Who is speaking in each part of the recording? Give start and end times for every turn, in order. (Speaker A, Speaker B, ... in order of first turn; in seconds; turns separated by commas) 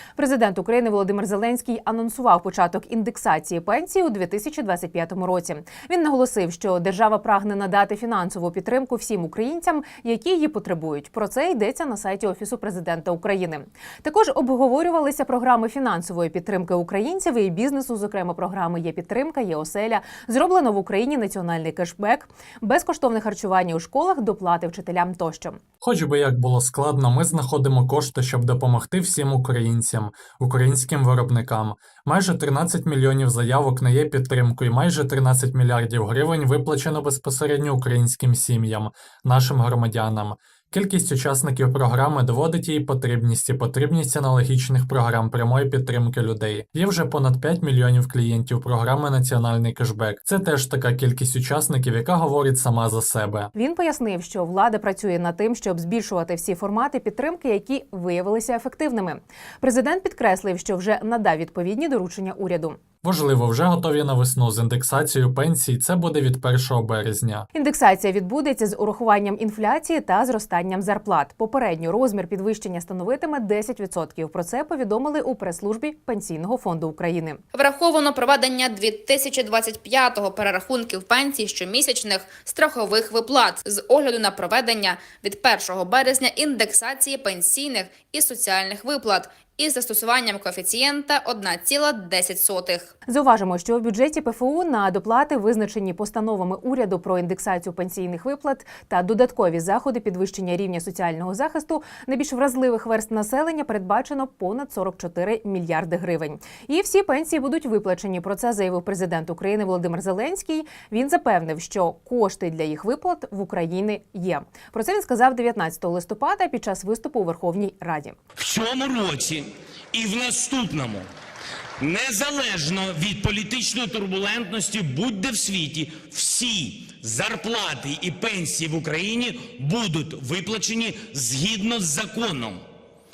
Speaker A: 0.2-25.6, Speaker B: 25.8-53.5, Speaker A: 53.5-62.8, Speaker B: 63.0-67.5, Speaker A: 67.5-77.4, Speaker C: 77.5-92.9, Speaker A: 93.1-118.2, Speaker D: 118.4-121.1, Speaker D: 121.8-132.6